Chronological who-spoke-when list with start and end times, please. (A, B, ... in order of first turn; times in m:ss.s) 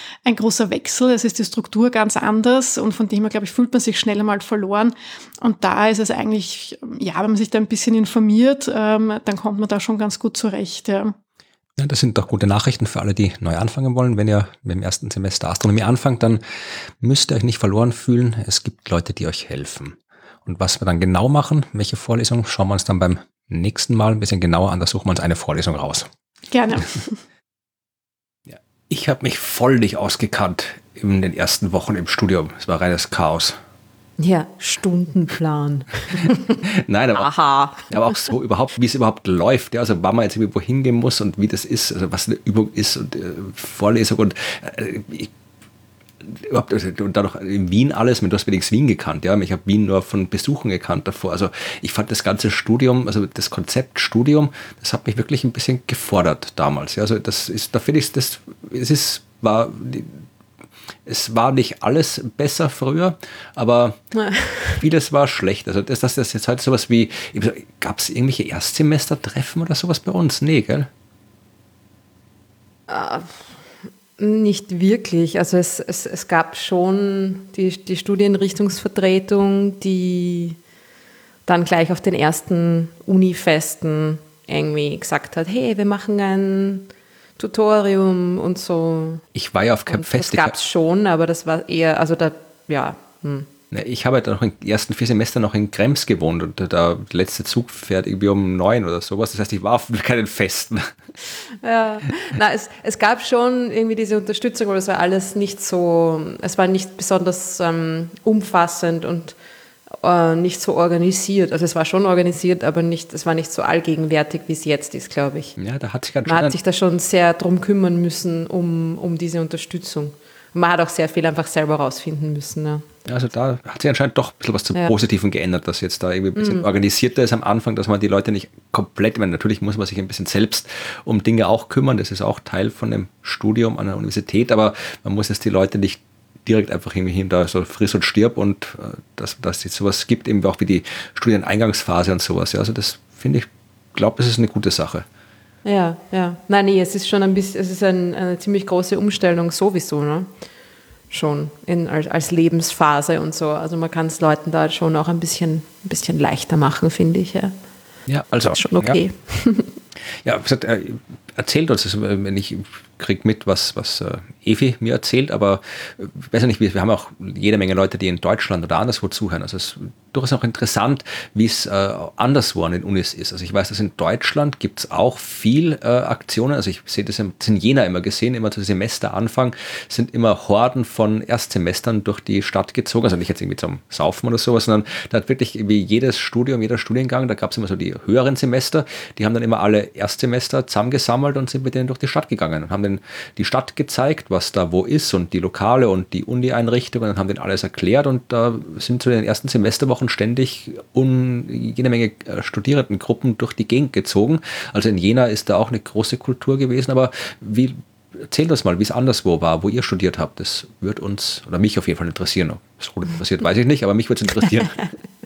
0:00.2-0:11.1 A
0:11.8-0:16.4 B
0:17.0-0:26.1 B
0:26.5-0:27.2 A
0:28.5-0:33.6 B
0:34.2-0:36.6 C
0:36.6-0:37.3 B
0:37.2-0:38.2 C
0:37.9-0:45.3 B
0:46.2-1:00.2 B
1:01.0-1:04.0 B
1:04.2-1:04.8 C
1:04.8-1:10.9 B
1:12.9-1:13.6 C
1:14.2-1:20.6 C
1:21.4-1:29.2 C
1:29.3-1:30.6 B
1:29.9-1:33.5 C
1:33.7-1:40.9 B
1:41.6-1:49.4 C
1:49.9-1:55.6 C
1:55.6-1:56.6 B
1:56.2-2:02.9 C
2:03.0-2:25.0 B
2:06.4-2:06.6 C
2:25.6-2:30.3 C
2:31.1-2:37.6 C
2:38.1-2:39.0 B
2:38.5-2:39.7 C
2:40.2-3:34.8 B